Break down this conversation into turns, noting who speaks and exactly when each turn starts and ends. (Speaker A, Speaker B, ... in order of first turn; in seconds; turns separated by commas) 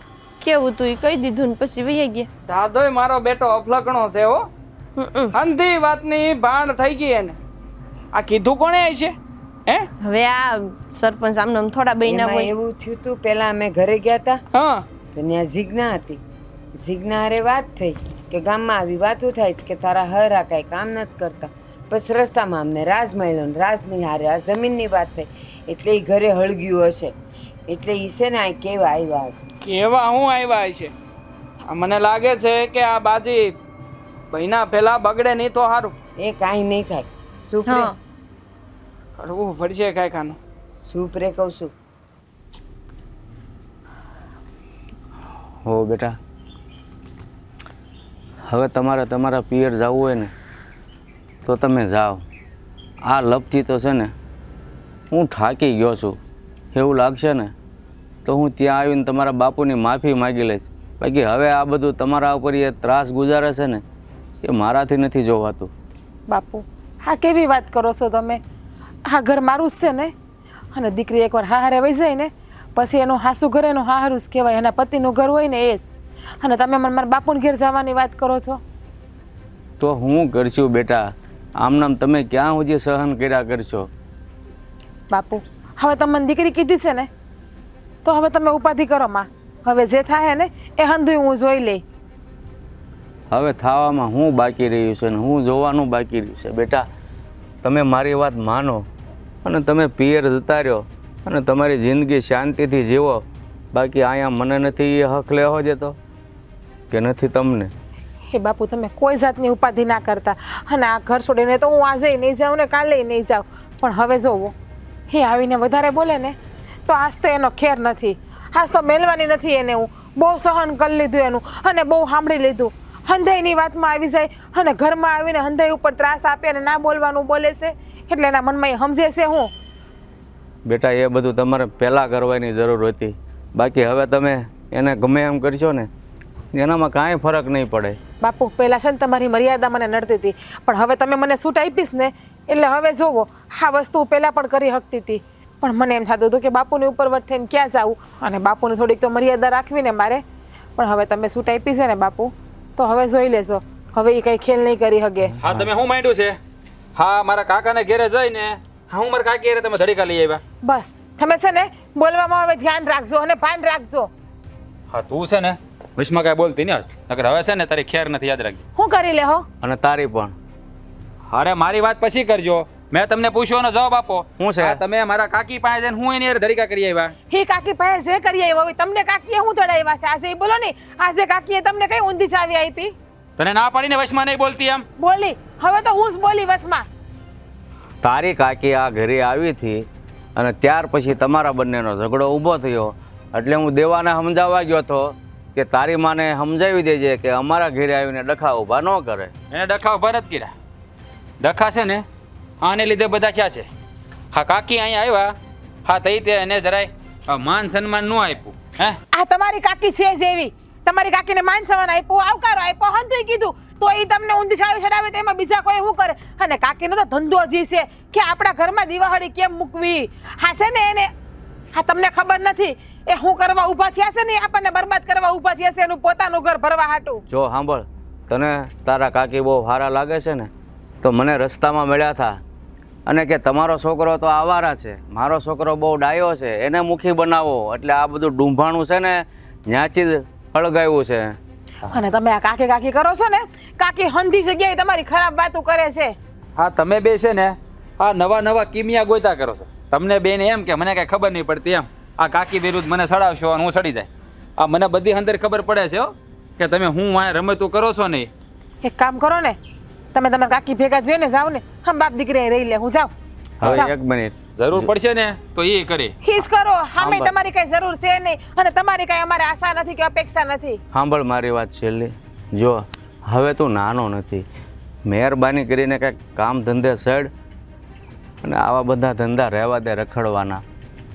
Speaker A: 0.4-2.3, Speaker B: 2.5-4.5, Speaker A: 5.0-5.3, Speaker B: 5.3-7.4, Speaker B: 8.1-9.2, Speaker A: 10.0-12.5, Speaker C: 12.0-14.4, Speaker B: 14.5-14.9, Speaker C: 15.1-16.2, Speaker C: 16.8-27.1, Speaker C: 27.7-29.4, Speaker B: 29.6-30.9, Speaker B: 31.7-33.5, Speaker B: 34.3-35.9, Speaker C: 36.2-37.9, Speaker A: 37.7-37.9, Speaker B: 39.2-40.4, Speaker C: 40.9-41.7, Speaker D: 45.6-46.2, Speaker D: 48.5-50.3, Speaker D: 51.5-52.2, Speaker D: 53.1-54.1, Speaker D: 55.1-56.2, Speaker D: 56.7-57.5, Speaker D: 58.3-63.8, Speaker D: 64.4-65.7, Speaker E: 66.3-68.4, Speaker E: 69.1-70.1, Speaker E: 70.7-75.9, Speaker E: 76.4-78.6, Speaker D: 79.8-83.9, Speaker E: 85.1-87.1, Speaker E: 88.0-91.8, Speaker D: 93.3-96.8, Speaker D: 97.6-98.9, Speaker D: 99.5-106.0, Speaker D: 106.9-107.7, Speaker E: 108.3-114.5, Speaker E: 115.1-116.3, Speaker E: 116.9-129.5, Speaker D: 130.7-135.9, Speaker D: 136.5-138.0, Speaker E: 138.2-150.2, Speaker E: 150.8-155.3, Speaker F: 155.4-156.4, Speaker F: 157.0-160.4, Speaker E: 160.6-164.1, Speaker F: 164.9-168.6, Speaker E: 168.8-169.4, Speaker D: 169.6-170.3, Speaker F: 171.3-177.1, Speaker D: 174.4-174.8, Speaker E: 177.3-182.9, Speaker F: 183.4-184.8, Speaker E: 185.0-186.9, Speaker D: 188.0-189.8, Speaker D: 190.4-199.3, Speaker F: 199.5-200.5, Speaker F: 201.4-202.0, Speaker F: 202.6-203.7, Speaker F: 204.3-205.3, Speaker F: 205.9-209.0, Speaker E: 209.1-221.1, Speaker E: 221.7-227.2, Speaker D: 227.3-230.5, Speaker D: 231.0-232.4, Speaker D: 233.1-241.4, Speaker E: 241.9-246.2, Speaker F: 246.6-258.3, Speaker E: 258.8-259.6, Speaker E: 260.1-263.1, Speaker D: 263.6-264.9, Speaker E: 263.6-263.9, Speaker F: 264.6-266.2, Speaker E: 266.2-270.8, Speaker D: 267.0-267.3, Speaker D: 270.9-274.4, Speaker D: 275.1-277.3, Speaker D: 278.4-280.6